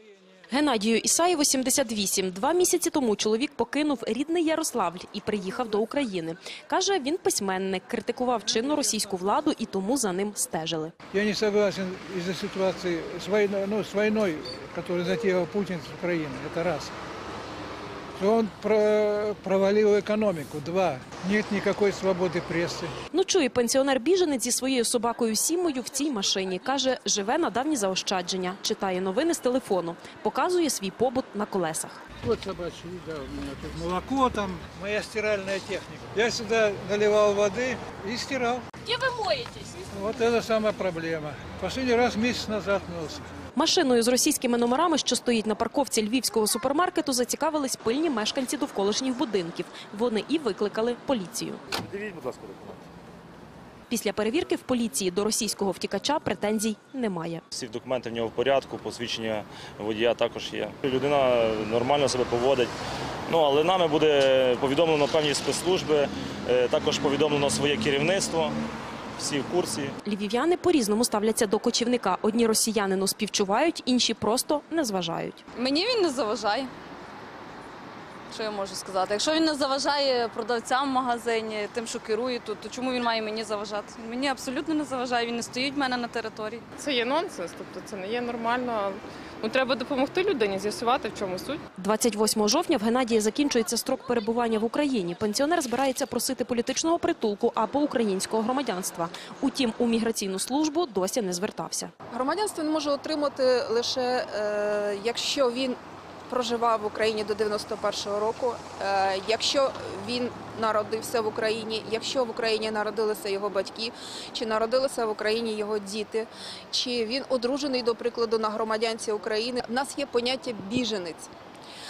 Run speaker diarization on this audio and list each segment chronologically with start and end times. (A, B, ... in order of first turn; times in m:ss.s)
0:00.5-0:10.9 A
0:11.1-0:16.9 B
0:18.2-0:22.9 B
0:23.1-0:32.0 A
0:32.2-0:38.6 B
0:39.1-0:39.4 A
0:39.9-0:43.3 B
0:43.6-0:51.6 A
0:51.7-0:52.8 C
0:53.9-0:57.4 A
0:57.5-1:02.7 C
1:03.3-1:08.5 C
1:09.2-1:09.9 C
1:10.0-1:15.4 A
1:15.5-1:16.7 D
1:18.3-1:26.6 D
1:26.8-1:31.6 E
1:31.8-1:41.9 A
1:42.1-2:01.3 F